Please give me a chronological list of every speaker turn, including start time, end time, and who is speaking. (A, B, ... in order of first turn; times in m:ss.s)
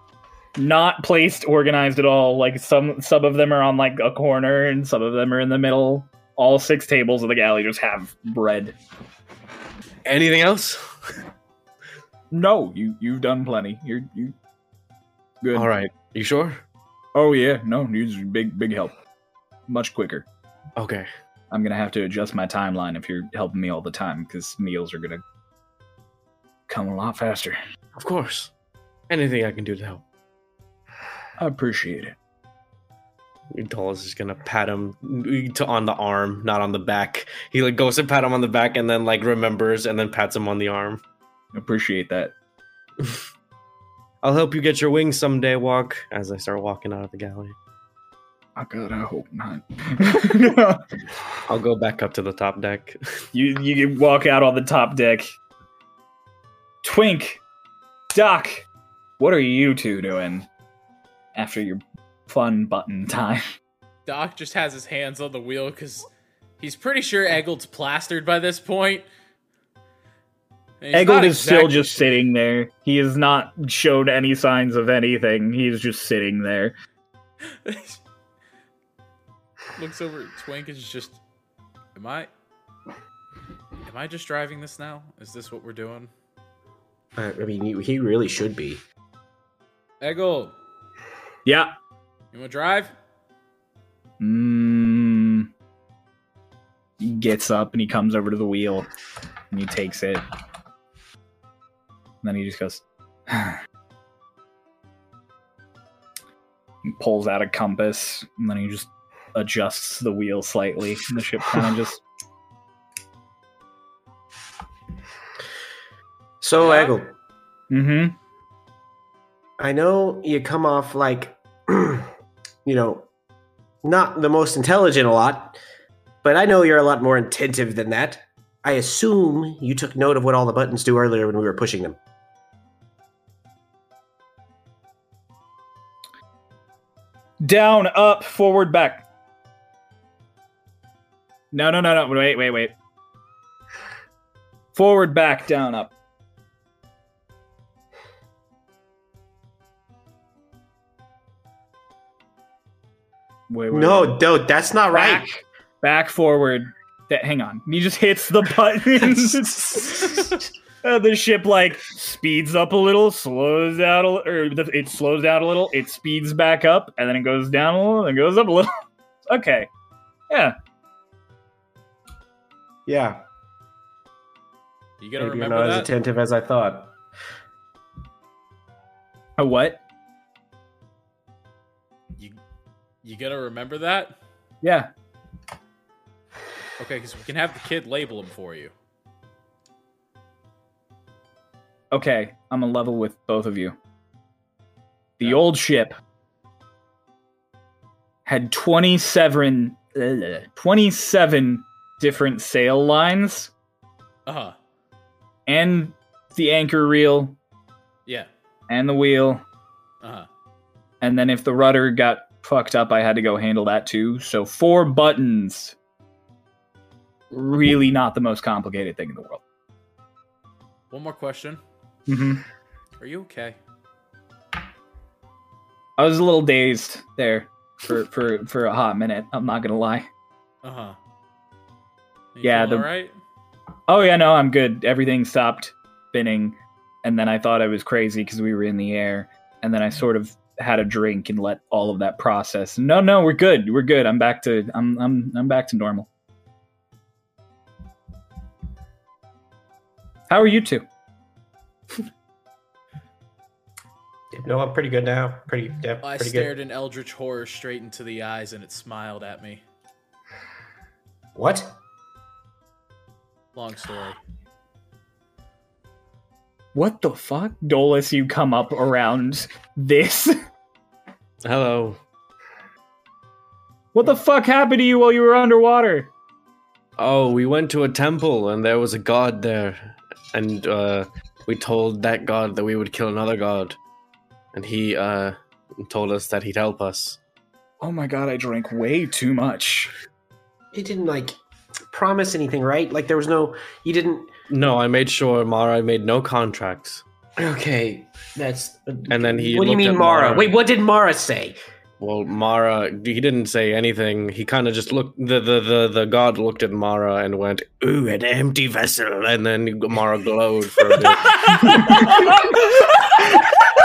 0:00.6-0:08.8 A
0:10.0-0:10.8 B
0:12.3-0:14.4 A
0:15.4-0:15.7 A
0:15.5-0:16.6 B
0:17.2-0:19.0 A
0:19.7-0:20.3 A
0:20.8-0:21.1 B
0:21.5-0:25.2 A
0:26.7-0:27.6 A
0:28.0-0:28.5 B
0:29.1-0:30.0 B
0:31.4-0:32.2 A
0:33.5-0:41.0 B
0:41.5-0:42.3 A
0:44.2-0:47.6 B
0:48.6-0:50.8 A
0:51.5-0:53.2 B
0:53.3-0:55.4 A
0:56.8-0:57.4 A
0:58.1-0:58.7 A
0:59.2-1:00.5 A
1:01.4-1:03.5 A
1:04.1-1:06.1 C
1:06.6-1:09.1 C
1:10.8-1:12.1 C
1:10.9-1:16.8 A
1:17.6-1:18.0 C
1:19.8-1:21.2 C
1:22.0-1:22.3 C
1:23.8-1:26.1 C
1:27.2-1:28.8 D
1:30.0-1:30.5 C
1:31.5-1:31.7 A
1:32.3-1:32.9 C
1:34.2-1:35.5 A
1:37.0-1:38.9 A
1:39.5-1:40.2 A
1:42.2-1:43.6 A
1:46.8-1:52.0 A
1:56.4-1:57.1 D
1:56.6-1:57.0 C
1:57.7-1:58.2 A
1:59.6-2:02.1 D
2:02.6-2:03.1 D
2:03.8-2:05.6 D
2:06.2-2:12.0 D
2:17.4-2:19.1 A
2:21.5-2:22.8 A
2:24.8-2:25.9 A
2:33.5-2:34.3 A
2:33.7-2:35.3 D
2:34.9-2:48.8 A
2:49.3-2:49.7 A
2:50.3-2:50.6 A
2:52.9-2:53.2 D
2:55.0-2:55.9 C
2:55.2-2:57.0 D
2:59.4-2:59.8 A
3:03.0-3:04.2 C
3:04.6-3:04.9 A
3:06.8-3:08.7 C
3:11.9-3:13.8 A
3:15.2-3:15.9 A
3:18.3-3:23.5 A
3:24.3-3:24.6 C
3:25.5-3:27.4 A
3:28.7-3:29.4 A
3:30.0-3:30.3 C
3:31.0-3:35.8 A
3:37.3-3:39.4 A
3:40.9-3:41.6 C
3:42.1-3:42.4 A
3:43.0-3:43.6 C
3:46.0-3:50.1 A
3:50.6-3:51.0 C
3:52.4-3:53.1 C
3:52.4-3:52.9 A
3:53.9-4:06.1 A
4:10.3-4:10.8 A
4:14.3-4:16.5 D
4:16.0-4:19.6 C
4:21.4-4:21.8 D
4:23.5-4:24.2 C
4:26.8-4:30.4 A
4:31.4-4:32.0 B
4:33.9-4:36.1 A
4:37.0-4:43.8 B
4:44.5-4:47.2 B
4:47.8-4:49.9 A
4:50.7-4:51.4 D
4:51.9-4:54.3 D
4:54.5-4:57.0 B
4:57.4-5:01.6 D
4:59.1-5:00.6 B
5:02.0-5:11.6 B
5:11.2-5:13.4 C